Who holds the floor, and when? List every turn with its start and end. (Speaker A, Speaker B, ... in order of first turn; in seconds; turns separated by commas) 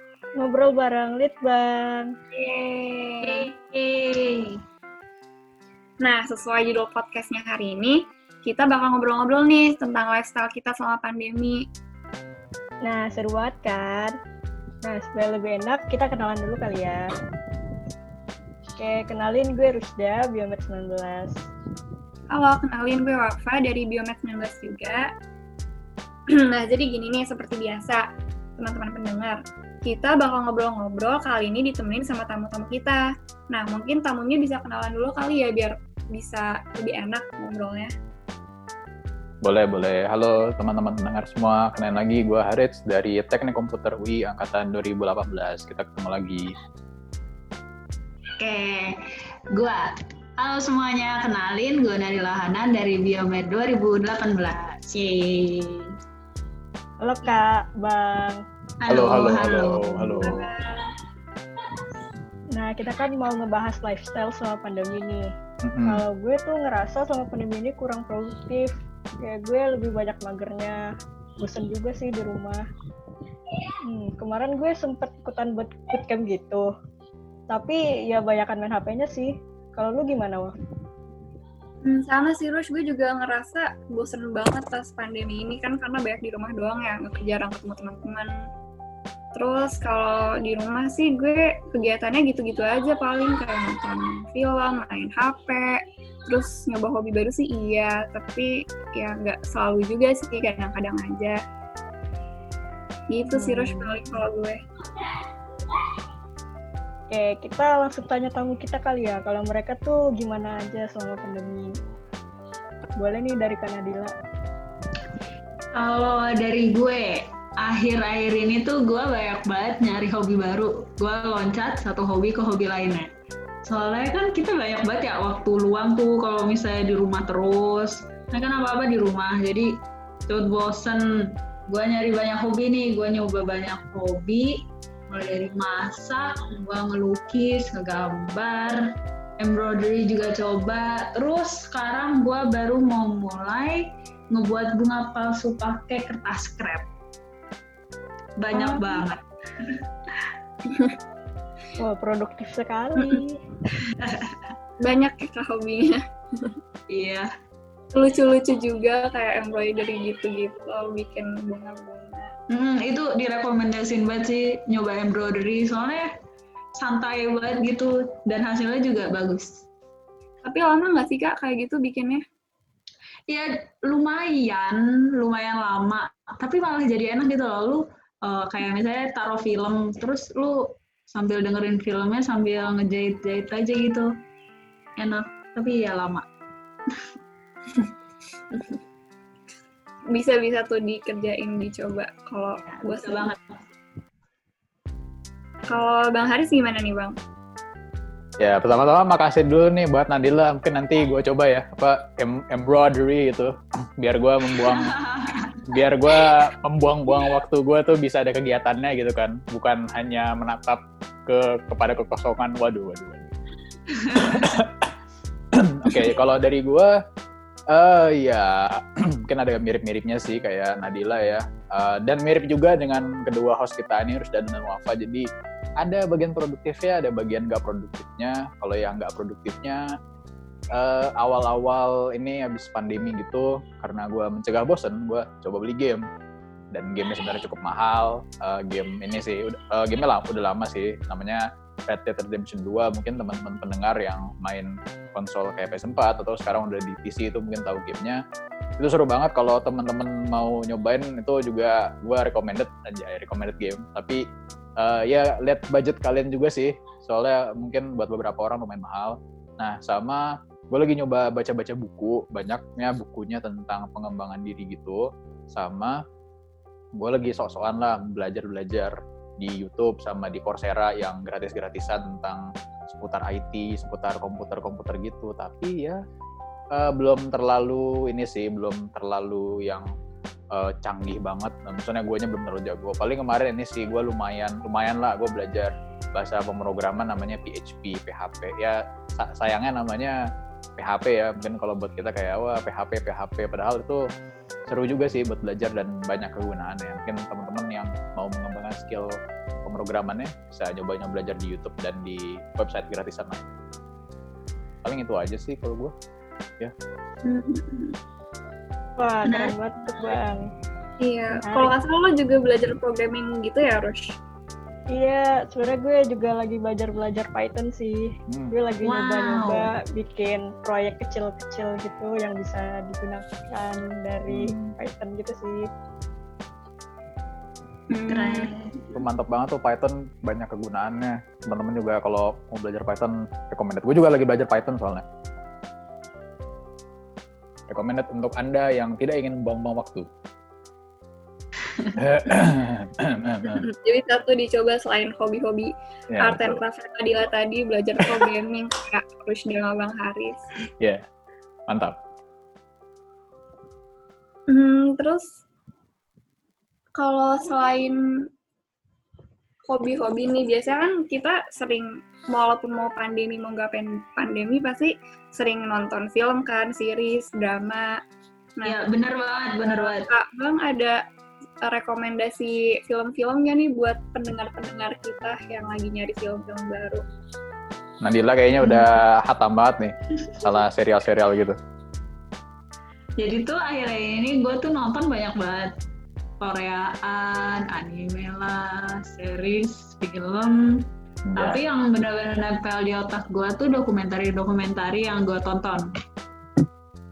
Speaker A: 0.4-2.1, Speaker B: 2.3-3.5, Speaker C: 3.2-4.6, Speaker B: 6.0-11.7, Speaker A: 12.8-14.2, Speaker A: 14.8-17.1, Speaker A: 18.8-21.3, Speaker B: 22.3-25.1, Speaker B: 26.3-28.0, Speaker B: 28.6-37.9, Speaker D: 39.4-46.5, Speaker C: 48.4-49.0, Speaker C: 49.5-55.9, Speaker A: 57.0-58.4, Speaker C: 58.8-59.9, Speaker D: 58.9-60.5, Speaker A: 60.0-60.3, Speaker B: 60.2-60.8, Speaker A: 62.5-65.3, Speaker D: 65.6-66.0, Speaker A: 65.8-70.8, Speaker A: 71.4-72.6, Speaker A: 73.8-76.7, Speaker A: 77.5-80.5, Speaker B: 81.8-88.4, Speaker B: 89.3-101.4, Speaker B: 103.1-104.6, Speaker A: 103.3-103.9, Speaker A: 107.1-111.7, Speaker A: 113.0-114.1, Speaker C: 115.7-123.1, Speaker C: 123.6-129.7, Speaker C: 130.3-138.8, Speaker C: 139.4-146.9, Speaker C: 148.4-150.3, Speaker A: 148.5-148.8, Speaker B: 150.7-150.9, Speaker A: 151.8-153.4, Speaker C: 153.9-154.5, Speaker B: 154.8-156.6, Speaker C: 156.9-157.3, Speaker B: 157.9-162.3, Speaker C: 162.5-166.1, Speaker C: 166.8-169.6, Speaker B: 170.4-172.2, Speaker C: 173.3-184.1, Speaker C: 185.0-186.2, Speaker B: 190.1-193.3, Speaker C: 192.6-193.6, Speaker B: 195.7-197.1, Speaker D: 198.4-205.0, Speaker C: 204.5-206.3, Speaker D: 205.7-213.3, Speaker C: 213.9-214.4, Speaker D: 214.1-214.9, Speaker D: 215.5-217.0, Speaker D: 217.7-225.3, Speaker D: 225.8-229.8, Speaker D: 230.7-236.1, Speaker D: 236.7-248.2, Speaker D: 248.8-254.2, Speaker D: 254.8-266.0, Speaker D: 266.9-276.0, Speaker D: 276.7-279.9, Speaker D: 280.5-290.2, Speaker D: 290.8-294.0, Speaker D: 294.7-303.5, Speaker D: 304.8-305.9, Speaker B: 307.2-307.9, Speaker A: 309.0-310.5, Speaker C: 309.2-310.1, Speaker B: 311.0-314.1, Speaker A: 311.3-311.7, Speaker A: 314.9-325.7, Speaker D: 318.3-318.5, Speaker C: 318.8-319.7, Speaker D: 324.3-324.7, Speaker B: 327.9-328.5, Speaker C: 328.1-328.8, Speaker D: 328.9-335.0, Speaker D: 337.7-340.1, Speaker D: 341.9-343.6, Speaker B: 343.5-350.4, Speaker D: 346.1-346.6, Speaker D: 351.7-352.0, Speaker B: 354.5-355.4, Speaker B: 356.9-358.3, Speaker B: 359.7-368.0, Speaker C: 368.6-370.1, Speaker B: 369.6-371.0, Speaker B: 371.6-377.0, Speaker D: 378.0-381.6, Speaker C: 383.2-385.7, Speaker C: 386.4-390.8, Speaker D: 391.3-391.6, Speaker C: 391.4-395.9